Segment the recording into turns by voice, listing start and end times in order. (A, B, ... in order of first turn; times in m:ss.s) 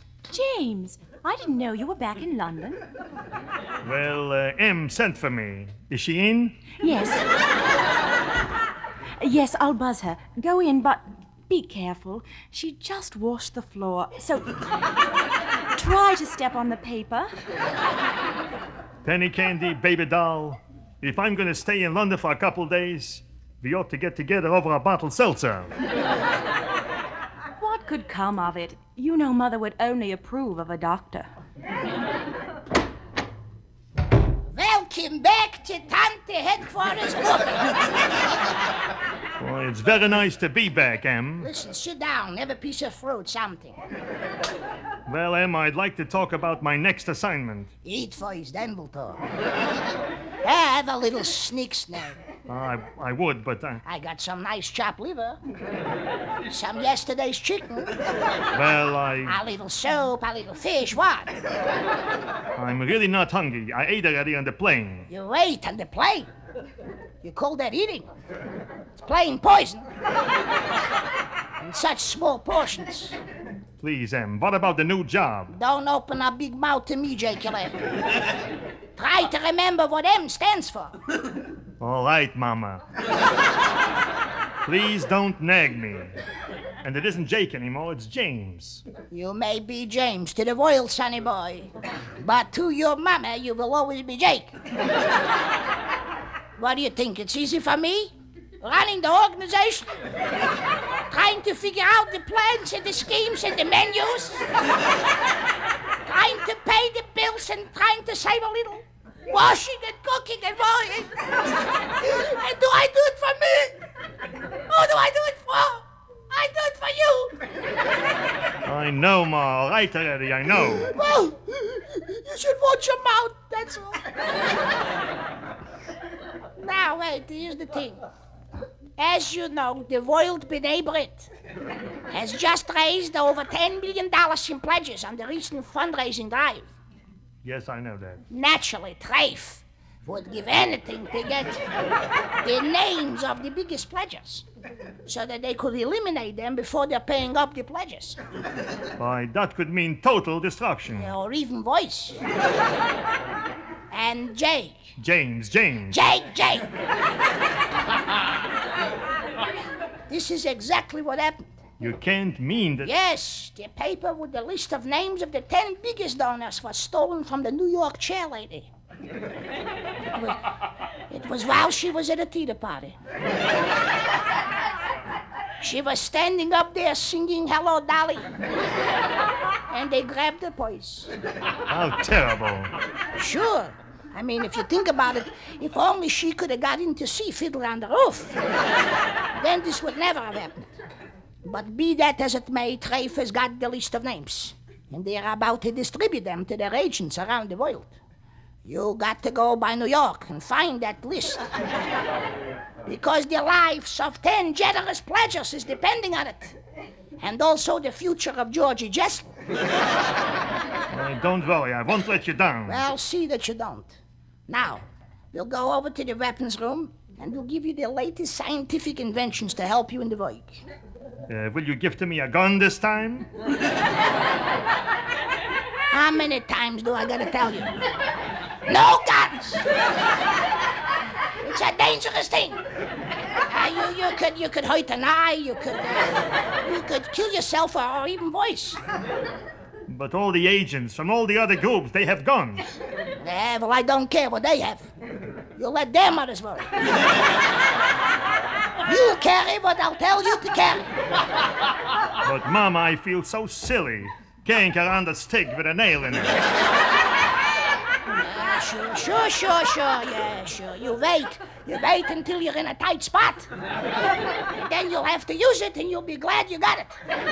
0:00.3-0:02.8 A
0:03.8-0:06.7 B
0:06.8-0:07.3 A
0:09.2-0:14.6 A
0:15.8-0:17.3 A
0:19.0-0:25.7 B
0:27.6-0:31.3 A
0:34.5-0:37.8 C
0:39.4-0:41.5 B
0:41.4-0:43.8 C
0:45.1-0:47.7 B
0:47.8-0:49.2 C
0:50.4-0:52.2 C
0:52.5-0:53.8 B
0:53.8-0:55.4 C
0:56.5-0:57.9 C
0:58.5-0:59.4 B
0:59.2-1:01.3 C
1:02.6-1:05.1 B
1:05.1-1:06.3 C
1:07.2-1:08.1 C
1:09.0-1:09.9 C
1:11.6-1:13.2 C
1:13.8-1:15.5 B
1:15.5-1:17.8 C
1:19.0-1:21.0 C
1:21.8-1:22.8 B
1:24.6-1:26.2 B
1:26.8-1:28.8 B
1:29.1-1:34.6 C
1:36.6-1:40.0 C
1:41.1-1:44.5 C
1:46.0-1:51.3 C
1:51.9-1:53.8 C
1:54.7-1:57.4 C
1:58.6-2:00.9 B
2:00.7-2:04.0 C
2:06.6-2:08.0 C
2:09.0-2:11.3 C
2:12.1-2:16.7 C
2:17.4-2:18.2 B
2:18.3-2:21.6 C
2:22.4-2:24.4 C
2:25.1-2:28.2 C
2:29.0-2:31.1 B
2:30.9-2:32.2 C
2:33.9-2:35.0 C
2:35.0-2:36.1 B
2:35.9-2:36.7 C
2:40.1-2:41.6 C
2:41.8-2:42.9 B
2:42.8-2:48.7 C
2:51.1-2:53.0 C
2:55.6-2:58.3 C
2:59.7-3:01.1 C
3:01.7-3:02.7 B
3:03.2-3:08.4 C
3:09.3-3:10.7 C
3:11.4-3:18.0 C
3:18.6-3:21.4 C
3:22.8-3:26.6 C
3:27.2-3:29.3 C
3:30.9-3:32.8 B
3:32.7-3:40.6 C
3:41.3-3:43.3 B
3:45.9-3:47.8 C
3:48.7-3:49.6 C
3:51.4-3:52.6 C
3:53.5-3:58.8 C
3:59.9-4:02.6 B
4:03.2-4:04.9 C
4:05.6-4:06.9 C
4:08.8-4:10.8 C
4:12.2-4:16.4 B
4:18.2-4:23.5 C
4:24.5-4:27.0 C